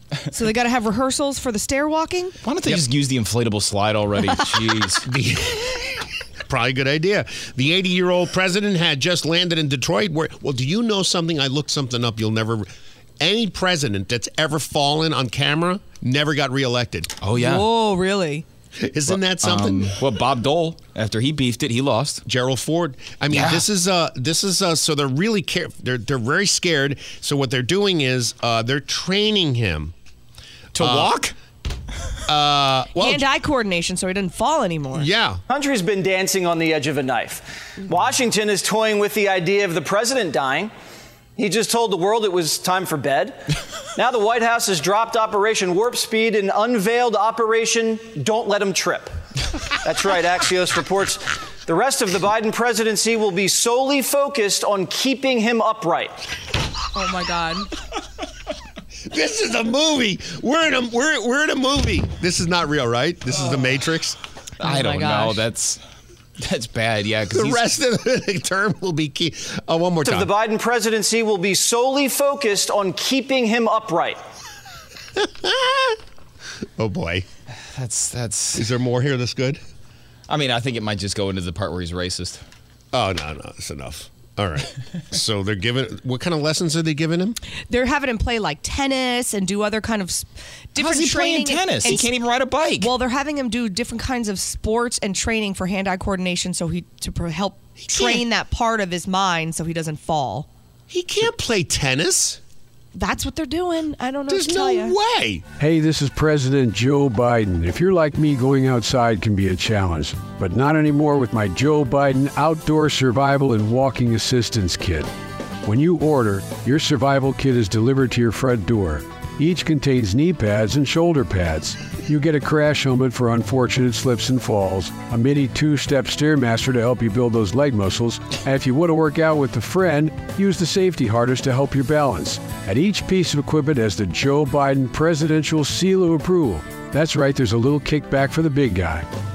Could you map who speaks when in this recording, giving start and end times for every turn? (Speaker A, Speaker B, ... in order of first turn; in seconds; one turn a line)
Speaker A: 0.3-2.4
Speaker B: 2.4-5.0
Speaker C: 5.0-12.7
Speaker C: 13.2-17.1
Speaker B: 17.2-17.6
Speaker A: 17.3-18.4
Speaker C: 18.8-20.0
Speaker B: 19.1-22.2
Speaker C: 22.2-29.9
Speaker B: 23.3-23.6
Speaker B: 30.7-31.2
Speaker C: 30.8-31.3
Speaker C: 32.2-33.2
Speaker A: 33.0-35.1
Speaker C: 34.9-35.4
Speaker D: 35.5-40.7
Speaker D: 41.4-43.4
Speaker D: 44.0-49.1
Speaker D: 49.8-56.2
Speaker A: 56.9-57.7
Speaker C: 59.0-64.2
Speaker A: 64.6-65.5
Speaker B: 64.6-65.8
Speaker B: 66.4-67.6
Speaker C: 67.3-70.3
Speaker D: 70.0-74.2
Speaker C: 75.2-76.0
Speaker C: 76.8-77.2
Speaker B: 77.5-78.7
Speaker C: 78.5-79.6
Speaker B: 80.3-82.4
Speaker C: 82.9-87.4
Speaker A: 87.7-92.2
Speaker B: 90.8-92.9
Speaker A: 92.8-100.5
Speaker C: 97.8-98.2
Speaker C: 100.9-102.4
Speaker A: 102.9-104.9
Speaker C: 104.3-105.4
Speaker E: 105.6-115.1
Speaker E: 115.6-139.1